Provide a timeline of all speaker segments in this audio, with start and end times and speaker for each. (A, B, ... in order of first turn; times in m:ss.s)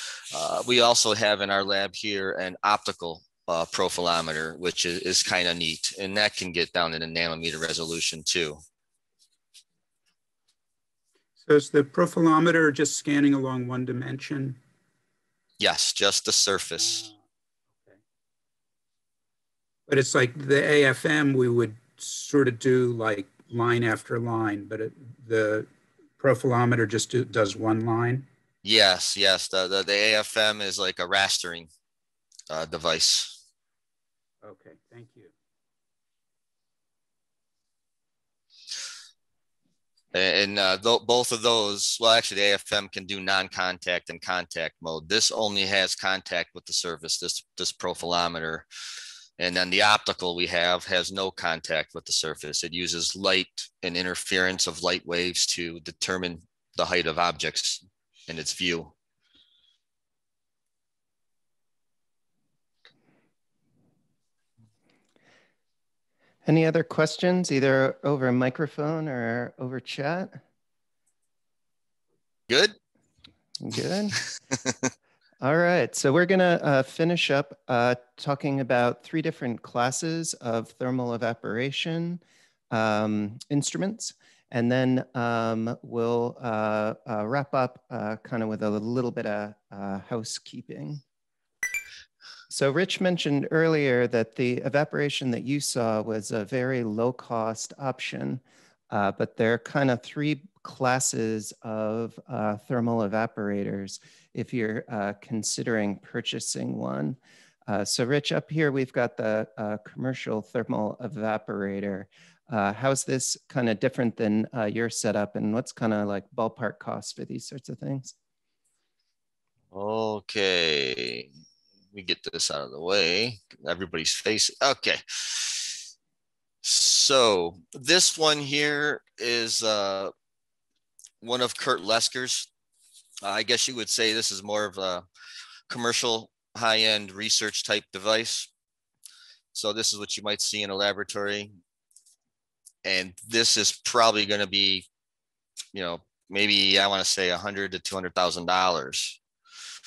0:00.3-0:08.6 A
0:11.4-0:14.6 B
0:15.6-0:17.1 A
0:16.8-0:17.2 B
0:19.9-0:28.3 B
0:28.6-0:31.7 A
0:32.5-0:33.4 A
0:34.4-0:35.3 B
0:40.1-0:48.7 A
0:49.4-0:58.9 A
1:06.4-1:10.4 C
1:12.5-1:12.8 A
1:13.6-1:14.2 C
1:15.4-1:31.0 C
1:32.5-1:58.1 C
1:59.7-2:01.3 A
2:01.9-2:05.8 A
2:06.6-2:10.1 A
2:11.2-2:12.5 A
2:13.2-2:15.0 A
2:15.7-2:18.5 A
2:19.5-2:21.5 A
2:22.8-2:24.9 A
2:25.7-2:29.2 A